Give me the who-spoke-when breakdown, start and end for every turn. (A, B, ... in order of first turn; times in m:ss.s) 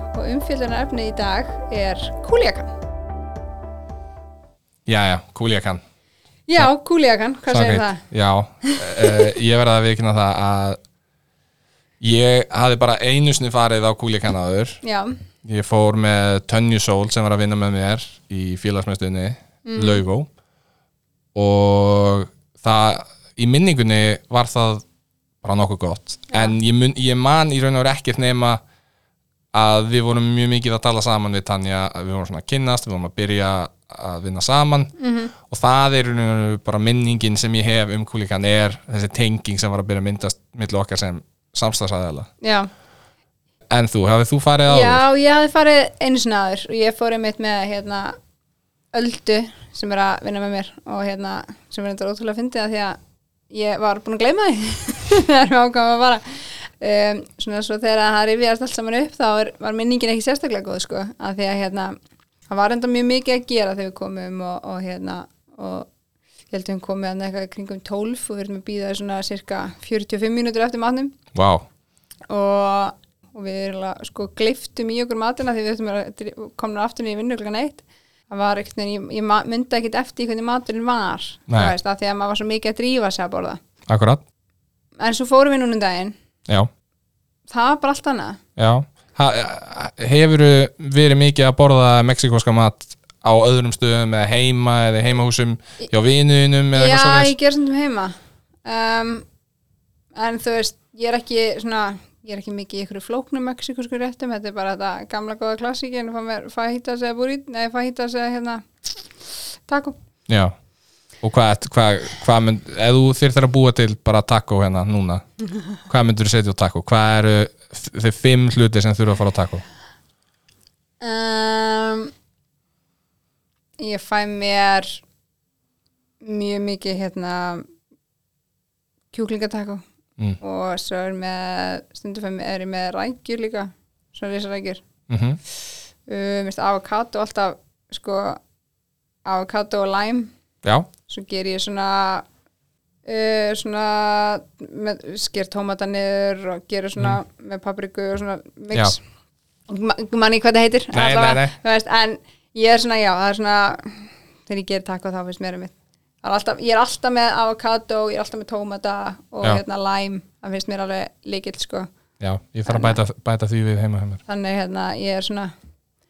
0:00.1-0:02.7 A
0:04.9-0:05.8 B
0:06.5-0:08.0 A
0:07.5-0:10.8 B
0:08.6-0:09.2 A
0:12.0-0:14.8 B
0:14.8-0:15.2 A
0:15.4-0:20.3 B
0:19.6-0:20.0 A
0:21.4-0:24.8 B
0:25.4-0:28.6 B
0:29.5-0:34.9 B
0:35.0-0:35.3 A
0:35.5-0:42.3 B
0:42.4-0:42.7 A
0:43.7-0:45.0 B
0:44.7-0:48.2 A
0:48.9-0:53.0 A
0:53.5-1:02.0 A
1:02.5-1:05.9 A
1:06.5-1:11.2 A
1:11.3-1:11.6 B
1:12.3-1:23.6 A
1:21.5-1:21.8 B
1:23.9-1:24.2 B
1:25.0-1:26.1 A
1:27.5-1:28.4 A
1:28.6-1:37.3 B
1:36.7-1:38.1 A
1:38.6-1:39.2 A
1:40.2-1:48.6 A
1:49.7-1:50.0 A
1:50.3-1:50.5 B
1:51.2-1:55.2 B
1:55.9-1:59.6 B
2:01.0-2:02.1 A
2:03.8-2:05.0 A
2:06.2-2:07.6 A
2:09.1-2:09.8 A
2:10.4-2:14.8 A
2:15.1-2:15.4 B
2:16.1-2:18.4 A
2:19.2-2:20.3 A
2:20.6-2:20.9 B
2:21.1-2:22.3 A
2:23.0-2:29.0 A
2:29.7-2:41.9 A
2:30.9-2:31.6 B
2:42.2-2:44.2 B
2:42.7-2:43.0 A
2:44.3-2:45.5 A